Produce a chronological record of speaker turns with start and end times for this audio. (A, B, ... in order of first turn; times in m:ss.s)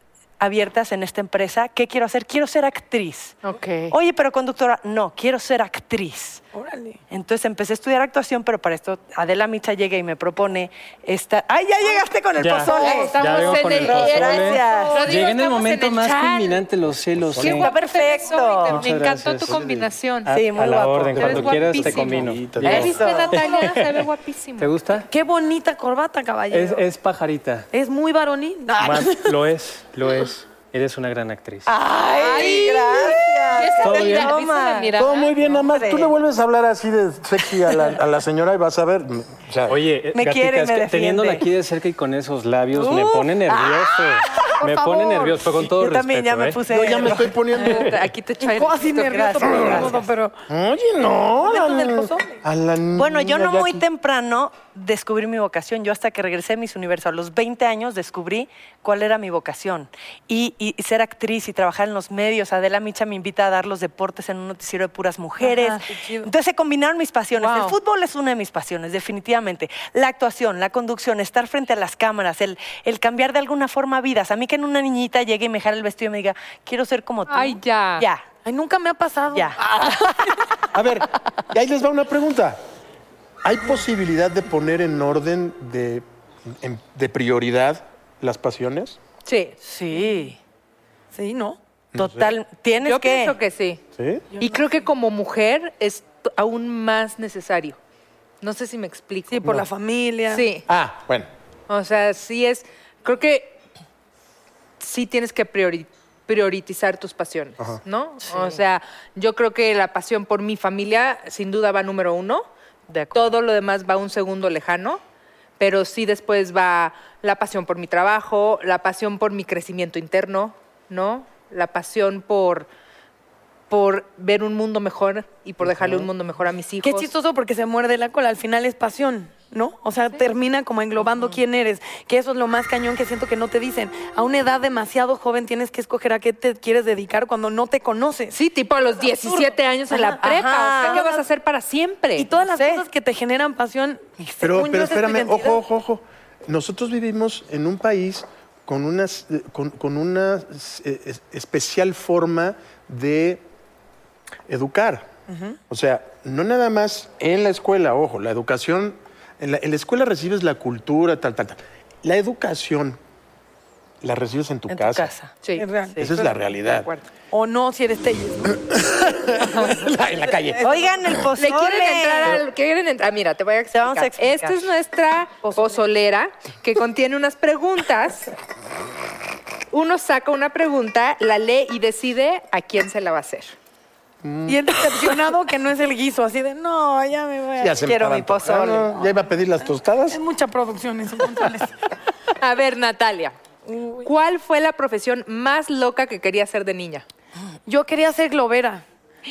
0:00.4-0:03.4 A
0:03.4-0:04.0 B
0:03.9-0:06.4 A
0:06.5-0:07.0 C
0:07.1-0:15.1 A
0:12.4-0:17.7 D
0:12.6-0:16.6 B
0:17.3-0:17.6 E
0:17.4-0:18.8 A
0:17.4-0:20.3 B
0:18.7-0:19.7 D
0:19.5-0:19.8 E
0:20.3-0:24.0 D
0:20.3-0:21.6 A
0:21.2-0:24.7 B
0:21.2-0:23.0 E
0:22.6-0:23.3 A
0:24.6-0:25.1 D
0:25.1-0:26.9 C
0:26.5-0:27.7 D
0:27.7-0:29.4 C
0:28.8-0:31.7 D
0:31.7-0:36.1 A
0:32.1-0:35.3 B
0:33.8-0:34.4 D
0:35.0-0:39.8 E
0:39.7-0:46.6 D
0:40.1-0:41.5 A
0:42.7-0:45.0 A
0:44.4-0:45.4 C
0:45.6-0:47.4 A
0:46.7-0:47.9 E
0:47.6-0:49.9 B
0:48.4-0:50.4 C
0:49.1-0:50.0 A
0:50.5-0:53.8 E
0:51.4-0:52.4 C
0:53.0-1:18.2 A
1:05.4-1:06.3 C
1:07.4-1:07.8 B
1:17.3-1:18.1 B
1:18.4-1:20.0 C
1:19.3-1:20.4 A
1:20.7-1:22.6 E
1:23.4-1:29.0 E
1:29.3-1:29.6 B
1:29.6-1:30.4 A
1:30.0-1:30.2 C
1:31.1-1:31.6 C
1:31.9-1:32.4 E
1:32.0-1:33.4 A
1:32.8-1:33.8 B
1:34.0-1:34.3 E
1:34.4-1:34.6 C
1:34.4-1:37.8 B
1:38.4-1:39.4 B
1:39.3-1:40.5 C
1:40.3-1:40.6 B
1:40.7-1:41.3 E
1:41.7-1:43.6 B
1:44.8-1:52.5 B
1:48.3-1:48.6 A
1:52.9-1:53.4 A
1:53.1-1:55.0 B
1:55.6-2:02.7 B
2:03.7-2:07.1 B
2:05.6-2:06.1 E
2:06.8-2:18.4 C
2:18.3-2:22.3 B
2:19.2-2:21.2 C
2:20.2-2:21.0 A
2:22.2-2:25.6 C
2:22.5-2:22.8 A
2:24.4-2:33.4 E
2:34.5-2:35.1 E
2:35.3-2:35.6 C
2:35.7-2:43.0 E
2:44.0-2:45.1 E
2:44.7-2:45.4 A
2:45.6-2:46.3 C
2:46.0-2:46.9 E
2:47.3-2:48.6 C
2:48.6-2:51.2 E
2:50.6-2:52.4 A
2:51.4-2:58.3 B
2:53.7-2:54.7 A
2:55.4-2:55.8 C
2:59.7-3:03.5 B
3:04.2-3:05.2 E
3:04.5-3:07.8 C
3:07.6-3:10.2 E
3:07.8-3:09.0 A
3:10.1-3:11.7 C
3:12.3-3:13.4 B
3:13.7-3:14.1 C
3:14.0-3:17.0 B
3:17.7-3:18.8 C